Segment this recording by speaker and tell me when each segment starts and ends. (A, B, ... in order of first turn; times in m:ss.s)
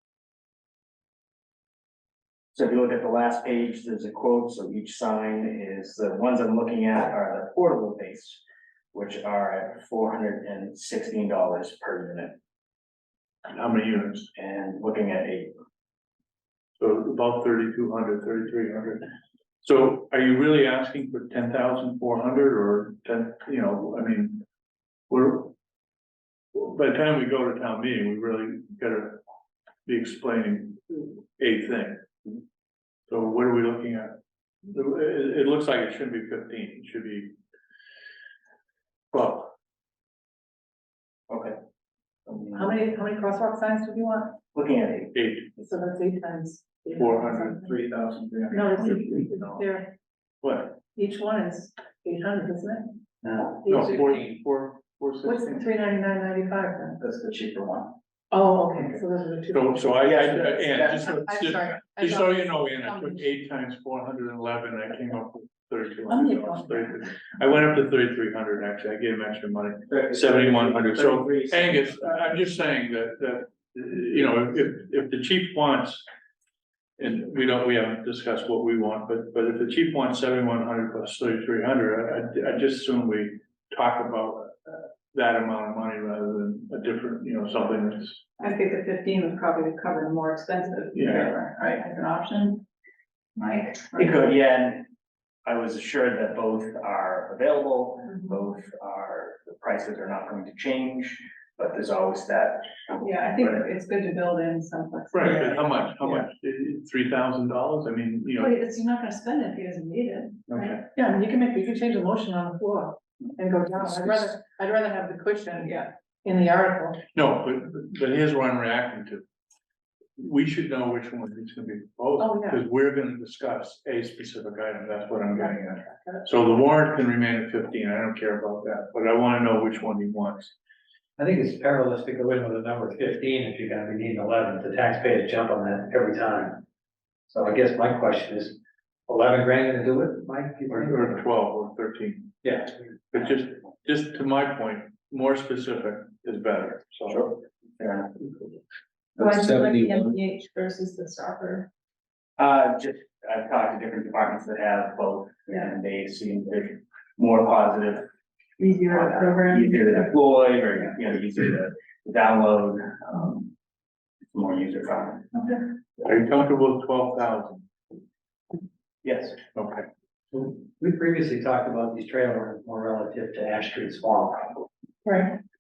0:02.5-0:08.4 A
0:08.9-0:12.4 A
0:13.5-0:14.3 B
0:14.3-0:15.5 A
0:16.8-0:19.1 B
0:19.6-0:24.4 B
0:25.1-0:25.5 B
0:26.5-0:29.2 B
0:29.8-0:32.0 B
0:33.1-0:34.2 B
0:34.7-0:37.3 B
0:39.1-0:39.5 B
0:41.3-0:41.6 A
0:42.3-0:42.7 A
0:42.5-0:44.3 C
0:44.5-0:45.1 A
0:45.1-0:45.5 B
0:45.6-0:47.7 C
0:46.9-0:49.6 B
0:48.5-0:49.9 C
0:50.4-0:50.8 B
0:50.9-0:53.0 C
0:53.6-0:54.1 C
0:53.6-0:55.7 B
0:55.2-0:57.0 C
0:58.3-0:59.8 C
0:58.8-1:16.0 B
1:00.0-1:01.0 A
1:01.3-1:03.2 C
1:06.1-1:06.8 C
1:11.0-1:11.6 A
1:17.0-1:28.2 B
1:28.4-1:32.6 D
1:30.9-1:31.3 B
1:33.4-1:34.2 D
1:33.9-1:34.9 A
1:35.4-1:42.7 A
1:43.0-1:46.1 D
1:45.1-1:48.5 B
1:48.4-1:50.8 D
1:50.5-1:50.8 B
1:50.9-1:55.7 C
1:53.8-1:54.2 B
1:55.6-1:55.9 D
1:56.2-1:57.0 C
1:57.1-1:59.2 B
2:00.2-2:10.5 B
2:02.2-2:02.6 C
2:11.2-2:16.6 E
2:17.3-2:21.2 E
2:20.7-2:22.4 B
2:22.4-2:22.7 E
2:23.1-2:27.3 B
2:27.1-2:28.1 A
2:29.2-2:31.7 D
2:32.4-2:38.0 A
2:38.6-2:40.0 D
2:38.9-2:43.5 A
2:44.3-2:45.4 A
2:46.0-2:47.6 B
2:49.0-2:49.4 A
2:49.5-2:49.8 B
2:50.3-2:54.6 E
2:55.0-2:55.4 C